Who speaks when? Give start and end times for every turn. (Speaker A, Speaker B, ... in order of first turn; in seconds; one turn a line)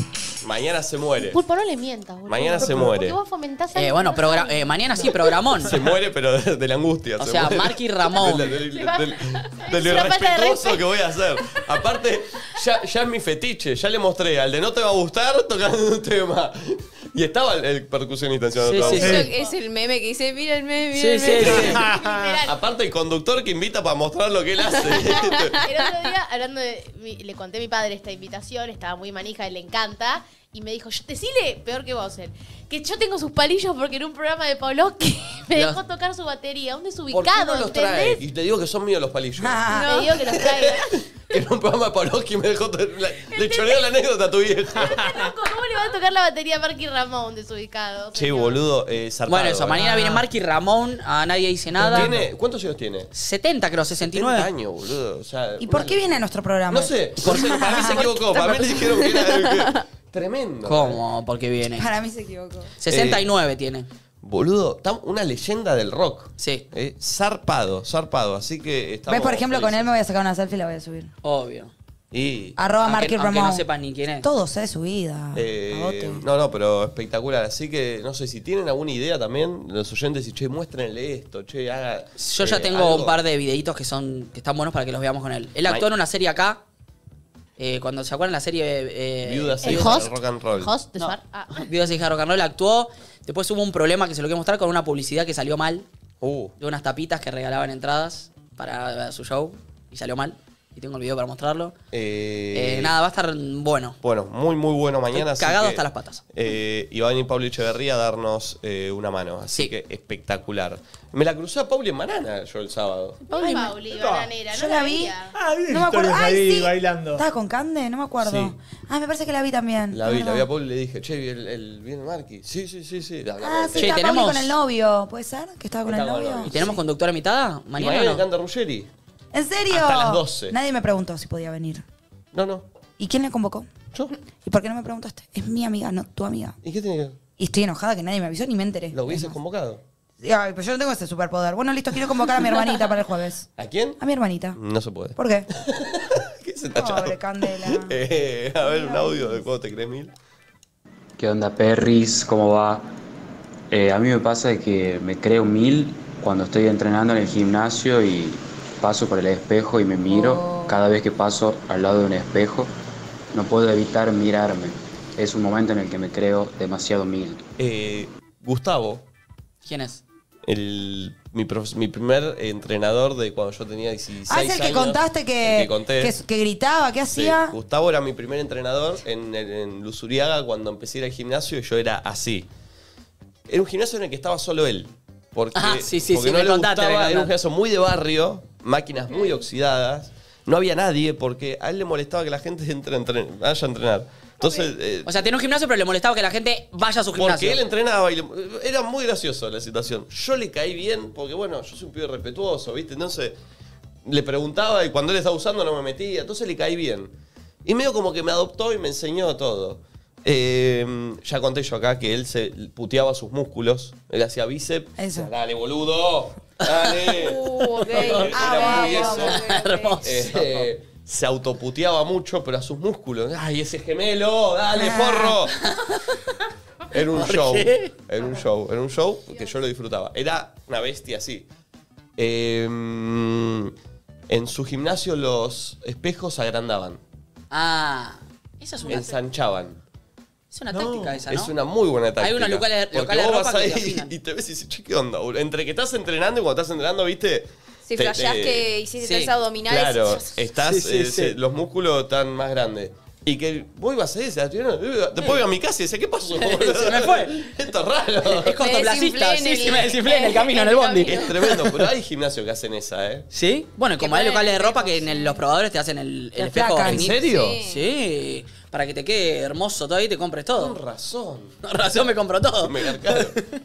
Speaker A: 0.4-1.4
Speaker B: 1.2-5.2
Speaker A: 2.3-3.2
Speaker C: 2.6-2.9
Speaker D: 3.7-5.7
Speaker A: 5.6-19.3
Speaker D: 7.2-8.5
Speaker B: 8.7-10.9
Speaker D: 18.6-19.2
Speaker E: 18.9-21.7
Speaker C: 19.0-19.3
Speaker D: 20.9-21.8
Speaker A: 21.4-21.8
Speaker C: 21.6-22.4
Speaker B: 21.7-22.6
Speaker A: 22.4-25.6
Speaker E: 24.8-25.9
Speaker B: 25.6-38.2
Speaker D: 35.5-35.8
Speaker A: 37.1-39.7
Speaker F: 39.4-40.0
Speaker E: 39.7-40.1
Speaker B: 39.8-41.0
Speaker A: 40.2-45.1
Speaker B: 43.3-43.9
Speaker B: 44.7-48.6
Speaker A: 48.1-50.1
Speaker D: 49.3-52.1
Speaker C: 51.8-52.2
Speaker A: 51.8-53.1
Speaker D: 53.1-54.5
Speaker A: 54.0-61.0
Speaker F: 55.6-58.0
Speaker D: 57.2-58.6
Speaker E: 58.8-59.8
Speaker D: 60.6-61.9
Speaker F: 61.8-62.7
Speaker D: 62.8-63.9
Speaker A: 62.9-63.2
Speaker A: 64.2-69.9
Speaker D: 66.4-66.7
Speaker F: 69.1-71.1
Speaker D: 71.2-71.7
Speaker A: 72.1-72.6
Speaker F: 72.5-73.7
Speaker D: 72.8-74.3
Speaker F: 74.2-76.2
Speaker A: 75.3-83.2
Speaker D: 82.2-86.6
Speaker D: 87.6-90.1
Speaker A: 89.2-90.7
Speaker B: 89.6-91.7
Speaker D: 91.0-95.8
Speaker A: 96.2-96.5
Speaker D: 96.6-101.7
Speaker A: 101.9-102.9
Speaker D: 102.5-104.0
Speaker A: 104.0-113.2
Speaker D: 105.1-106.2
Speaker B: 113.3-115.3
Speaker C: 113.9-114.3
Speaker F: 114.5-115.1
Speaker C: 115.3-117.2
Speaker F: 115.7-120.5
Speaker A: 118.2-118.5
Speaker A: 119.9-124.0
Speaker F: 123.4-126.8
Speaker D: 123.8-124.5
Speaker A: 125.8-126.8
Speaker D: 126.4-128.2
Speaker A: 127.8-128.9
Speaker F: 129.3-131.8
Speaker A: 129.7-130.6
Speaker A: 132.3-132.7
Speaker F: 133.0-133.7
Speaker F: 134.4-136.6
Speaker A: 136.6-137.2
Speaker F: 137.4-139.4
Speaker A: 138.9-139.8
Speaker F: 140.2-143.5
Speaker A: 143.6-144.0
Speaker F: 144.0-144.6
Speaker A: 144.6-150.1
Speaker F: 145.2-145.5
Speaker F: 146.7-148.0
Speaker F: 148.6-149.4
Speaker G: 151.2-152.9
Speaker G: 153.7-162.7
Speaker F: 160.1-160.8
Speaker G: 163.3-167.4
Speaker A: 167.6-169.0
Speaker D: 169.6-170.0
Speaker A: 170.4-176.1
Speaker F: 174.3-177.5
Speaker A: 177.1-182.5
Speaker A: 183.5-195.1
Speaker D: 185.5-187.3
Speaker B: 189.1-189.4
Speaker D: 195.0-197.6
Speaker A: 197.1-203.4
Speaker A: 204.0-207.1
Speaker A: 207.6-219.4
Speaker F: 215.0-215.3
Speaker E: 217.2-220.1
Speaker D: 217.8-218.3
Speaker F: 218.3-219.4
Speaker D: 219.0-220.6
Speaker A: 220.0-225.5
Speaker F: 224.7-225.4
Speaker D: 225.7-226.0
Speaker A: 226.9-231.5
Speaker D: 227.1-227.9
Speaker A: 232.2-233.7
Speaker A: 234.3-237.0
Speaker D: 237.5-239.1
Speaker A: 238.9-239.8
Speaker D: 240.5-241.5
Speaker A: 240.7-248.7
Speaker D: 242.2-244.1
Speaker E: 247.9-250.3
Speaker D: 249.0-249.3
Speaker A: 249.6-258.5
Speaker D: 250.6-251.4
Speaker D: 256.3-257.5
Speaker D: 258.3-261.8
Speaker E: 258.5-261.3
Speaker A: 261.1-263.3
Speaker D: 263.3-270.8
Speaker E: 264.0-265.4
Speaker F: 266.4-267.1
Speaker A: 266.8-267.6
Speaker E: 267.2-267.8
Speaker A: 270.5-271.6
Speaker D: 271.6-273.4
Speaker A: 272.6-273.4